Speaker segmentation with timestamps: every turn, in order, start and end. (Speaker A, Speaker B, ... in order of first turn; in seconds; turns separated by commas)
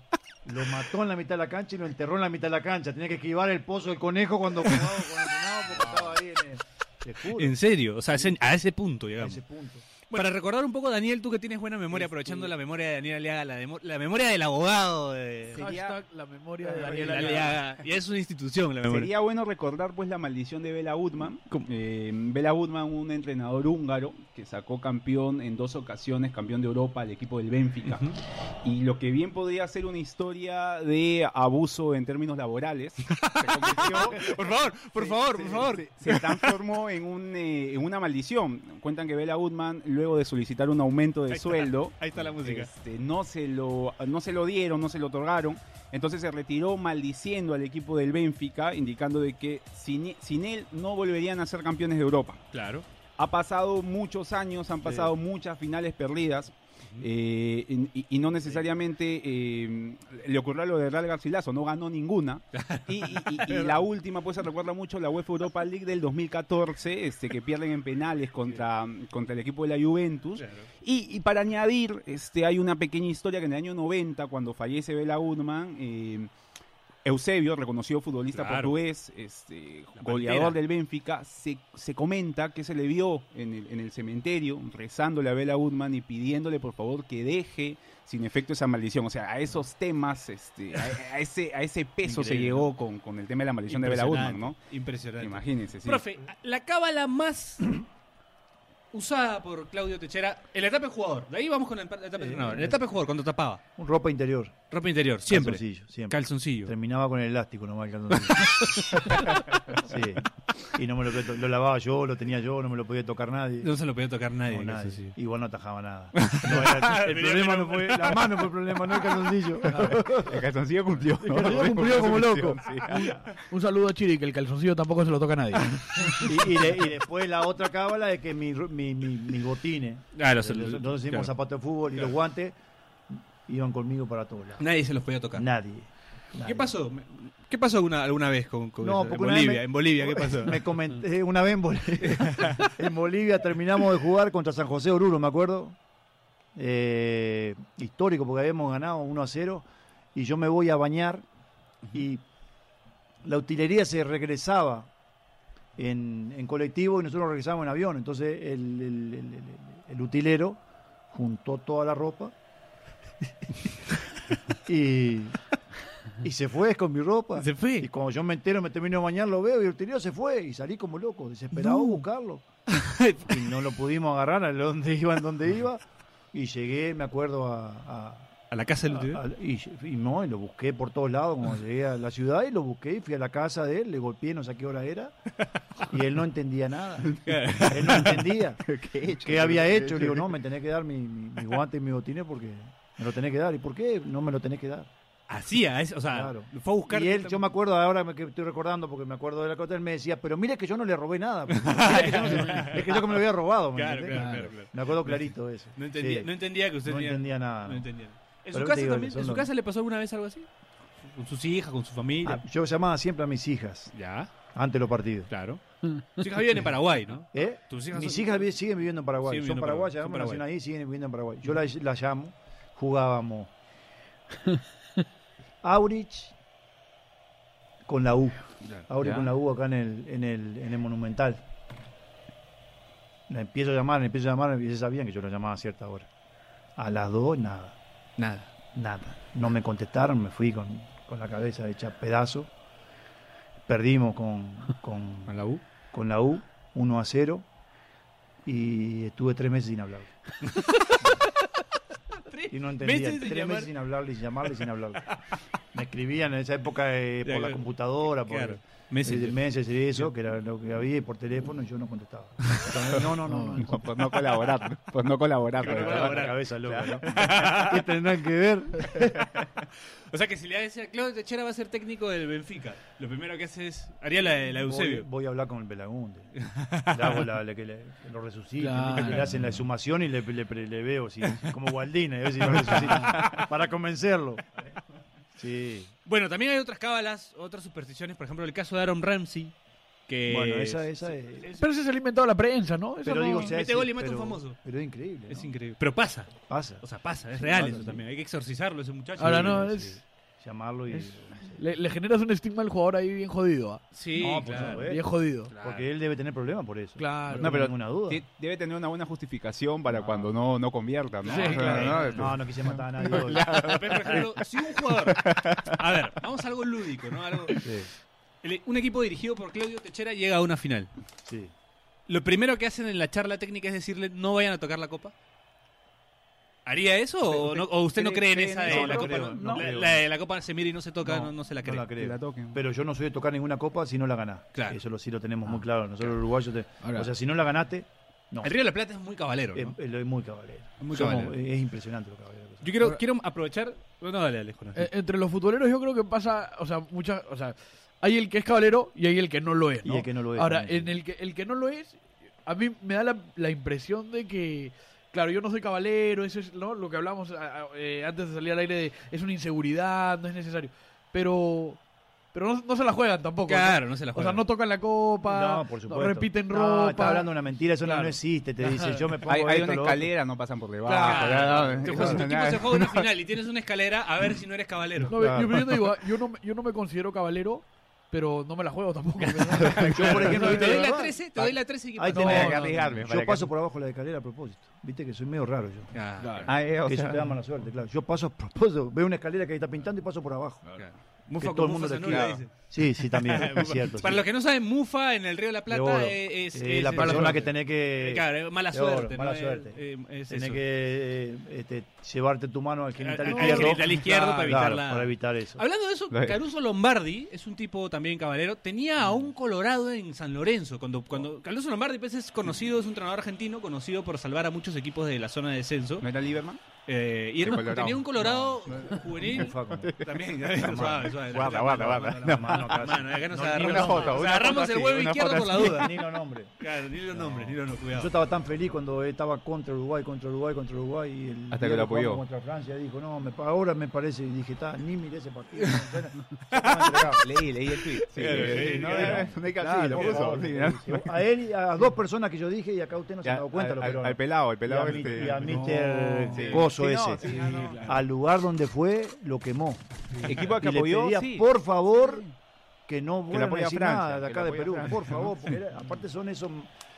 Speaker A: 0.4-7.5, Speaker B: 4.7-4.9, Speaker B: 7.3-9.4, Speaker A: 8.1-8.4, Speaker A: 9.2-9.9, Speaker B: 10.1-15.8, Speaker C: 11.9-12.5, Speaker D: 15.5-17.6, Speaker C: 15.5-16.0, Speaker A: 16.8-17.3, Speaker B: 16.8-19.1, Speaker C: 18.8-52.4, Speaker B: 27.8-28.1, Speaker B: 33.1-36.5, Speaker B: 41.3-42.7, Speaker B: 52.5-52.8, Speaker C: 53.2-76.3, Speaker A: 54.8-55.1, Speaker B: 62.5-63.8, Speaker B: 70.3-70.7, Speaker C: 77.0-94.5, Speaker B: 78.3-78.8, Speaker B: 80.0-80.6, Speaker A: 92.0-92.7, Speaker B: 93.7-97.8, Speaker C: 95.2-96.0, Speaker B: 98.9-103.6, Speaker A: 102.2-102.8, Speaker A: 103.8-104.5, Speaker B: 104.7-106.7, Speaker A: 105.2-109.1, Speaker B: 108.4-109.3, Speaker A: 109.8-113.7, Speaker B: 113.6-115.1, Speaker A: 114.5-120.4, Speaker B: 116.2-118.5, Speaker D: 119.7-120.1, Speaker C: 119.9-123.3, Speaker D: 121.2-126.3, Speaker A: 121.3-123.1, Speaker A: 126.2-132.6, Speaker B: 130.1-131.3, Speaker A: 133.4-134.7, Speaker B: 134.6-135.5, Speaker A: 135.3-136.7, Speaker B: 136.4-140.8, Speaker A: 138.8-145.8, Speaker B: 142.2-142.7, Speaker A: 146.6-151.2, Speaker A: 151.9-152.2, Speaker A: 153.2-154.9, Speaker A: 155.8-162.3, Speaker A: 164.7-165.4, Speaker A: 166.2-172.4, Speaker B: 167.3-167.9, Speaker B: 171.5-172.0, Speaker B: 172.7-173.6, Speaker A: 173.2-175.8, Speaker A: 176.3-178.3, Speaker B: 178.5-179.2, Speaker A: 178.9-185.1, Speaker A: 185.9-194.9, Speaker C: 187.1-188.1, Speaker B: 187.2-188.2, Speaker C: 188.6-190.3, Speaker B: 195.3-197.4, Speaker A: 196.1-207.9, Speaker B: 201.5-203.2, Speaker B: 203.7-210.5, Speaker D: 204.1-204.5, Speaker A: 208.5-209.5, Speaker B: 211.1-212.4, Speaker A: 212.2-213.9, Speaker B: 213.9-214.3, Speaker A: 214.5-215.3, Speaker B: 215.3-218.5, Speaker A: 217.3-223.5, Speaker B: 219.2-220.4, Speaker A: 225.6-226.3, Speaker A: 227.8-231.4, Speaker C: 229.0-229.3, Speaker A: 233.3-236.1, Speaker A: 236.8-237.8, Speaker B: 238.2-238.5, Speaker A: 238.7-242.5, Speaker A: 243.7-245.4, Speaker B: 245.3-245.6, Speaker A: 245.9-247.4, Speaker A: 248.4-250.1, Speaker B: 250.4-251.3, Speaker A: 251.0-251.2, Speaker B: 252.3-253.7, Speaker A: 252.5-255.2, Speaker A: 255.7-264.1, Speaker B: 257.2-257.6, Speaker B: 258.2-260.0, Speaker D: 263.3-263.6, Speaker C: 263.6-267.3, Speaker B: 265.6-267.9, Speaker A: 265.6-269.1, Speaker B: 270.1-275.1, Speaker A: 274.6-276.3, Speaker B: 276.4-277.2, Speaker A: 276.9-284.4, Speaker D: 278.6-279.3, Speaker B: 282.6-283.5, Speaker A: 285.4-285.9, Speaker B: 286.1-289.5, Speaker B: 290.1-291.6, Speaker A: 290.3-291.5, Speaker D: 291.5-293.5, Speaker A: 293.0-295.5, Speaker B: 293.3-294.6, Speaker B: 295.3-299.6, Speaker A: 296.5-298.0, Speaker D: 299.2-300.0, Speaker A: 299.2-301.6, Speaker D: 300.9-305.5, Speaker B: 303.9-304.9, Speaker A: 304.1-308.2, Speaker B: 305.5-305.8, Speaker D: 307.0-307.7, Speaker C: 307.4-315.7, Speaker A: 309.9-310.3, Speaker B: 311.2-312.2, Speaker D: 311.3-312.2, Speaker A: 311.5-313.5, Speaker B: 313.5-317.6, Speaker A: 317.6-317.9, Speaker B: 318.4-320.9, Speaker A: 321.2-321.5, Speaker B: 322.1-325.1, Speaker B: 326.6-331.9, Speaker C: 327.2-329.6, Speaker A: 328.6-330.1, Speaker A: 331.0-338.5, Speaker C: 331.9-332.6, Speaker D: 336.8-337.1, Speaker B: 338.4-339.8, Speaker A: 339.5-342.9, Speaker B: 340.8-341.4, Speaker B: 342.6-344.9, Speaker D: 344.7-361.8, Speaker A: 349.8-351.0, Speaker D: 362.3-369.1, Speaker B: 363.4-364.4, Speaker A: 365.2-370.1, Speaker C: 369.2-373.1, Speaker D: 370.8-371.8, Speaker B: 371.0-375.2, Speaker A: 371.8-372.2, Speaker A: 375.0-375.8, Speaker D: 375.1-380.9, Speaker C: 379.6-380.3, Speaker A: 379.8-385.9, Speaker B: 379.9-382.6, Speaker D: 382.1-383.0, Speaker C: 382.1-383.5, Speaker B: 385.9-386.5, Speaker D: 386.2-386.5, Speaker C: 386.5-387.3, Speaker A: 386.8-390.7, Speaker B: 390.8-400.6, Speaker A: 391.4-394.2, Speaker C: 392.0-392.4, Speaker A: 395.7-405.6, Speaker D: 396.9-397.5, Speaker B: 403.0-416.1, Speaker D: 403.3-404.6, Speaker C: 406.1-406.4, Speaker C: 416.0-416.6, Speaker B: 416.9-426.0, Speaker C: 417.4-422.7, Speaker A: 418.1-419.9, Speaker A: 421.4-424.3, Speaker C: 423.3-425.9, Speaker A: 425.5-426.6, Speaker B: 426.6-428.1, Speaker A: 427.1-437.2, Speaker C: 431.5-432.2, Speaker B: 436.5-437.2, Speaker C: 436.9-441.1, Speaker B: 438.1-439.3, Speaker A: 438.2-447.2, Speaker C: 443.2-445.8, Speaker D: 445.2-446.6, Speaker C: 446.4-447.9, Speaker D: 447.2-448.0, Speaker B: 447.3-447.6, Speaker A: 447.8-449.9, Speaker C: 450.3-452.3, Speaker A: 450.5-452.2, Speaker A: 452.9-456.7, Speaker C: 453.3-455.3